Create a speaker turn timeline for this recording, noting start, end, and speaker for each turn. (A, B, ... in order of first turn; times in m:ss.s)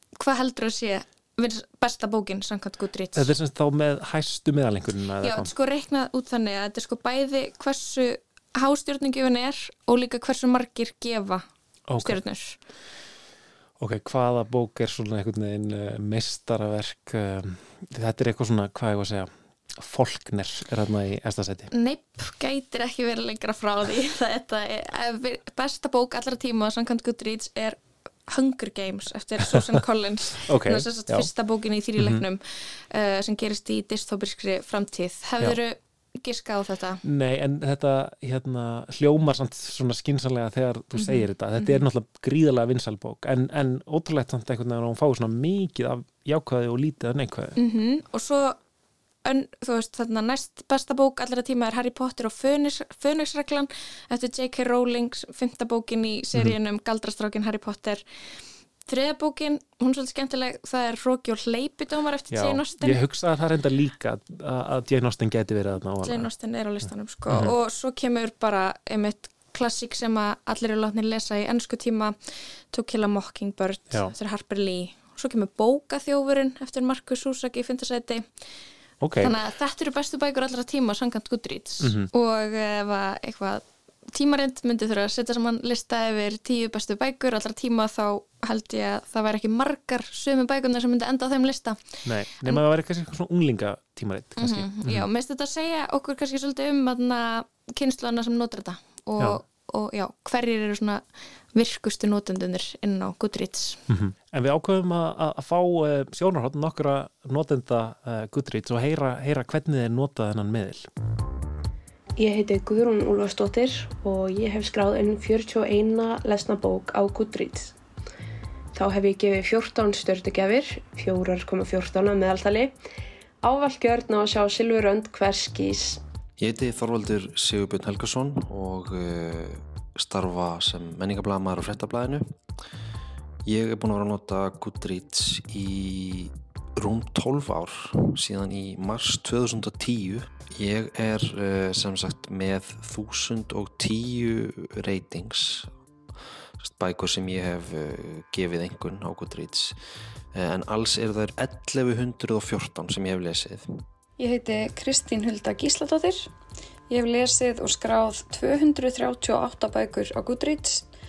0:00.2-0:03.3 A
0:03.2-0:05.5 B
0:05.2-0:11.5 A
0:11.9-0:12.2 B
0:12.0-0:12.6 A
0:13.8-0:21.7 B
0:21.7-0:37.0 A
0:30.4-0:31.3 B
0:32.0-0:32.2 B
0:37.0-0:47.6 B
0:41.0-0:41.8 A
0:47.6-0:48.6 A
0:49.2-0:58.0 A
0:58.8-1:03.0 A
1:02.3-1:06.3 B
1:06.0-1:12.2 A
1:07.3-1:07.6 B
1:12.7-1:18.3 A
1:19.0-1:19.4 B
1:19.2-1:32.6 A
1:21.8-1:22.1 B
1:32.0-1:35.1 B
1:34.4-1:43.8 A
1:43.9-1:50.9 B
1:52.2-1:57.7 C
1:58.7-2:02.7 C
2:03.4-2:06.0 C
2:06.4-2:12.2 D
2:13.4-2:25.7 D
2:26.6-2:29.8 D
2:30.3-2:33.8 D
2:34.2-2:36.3 E
2:36.9-2:40.8 E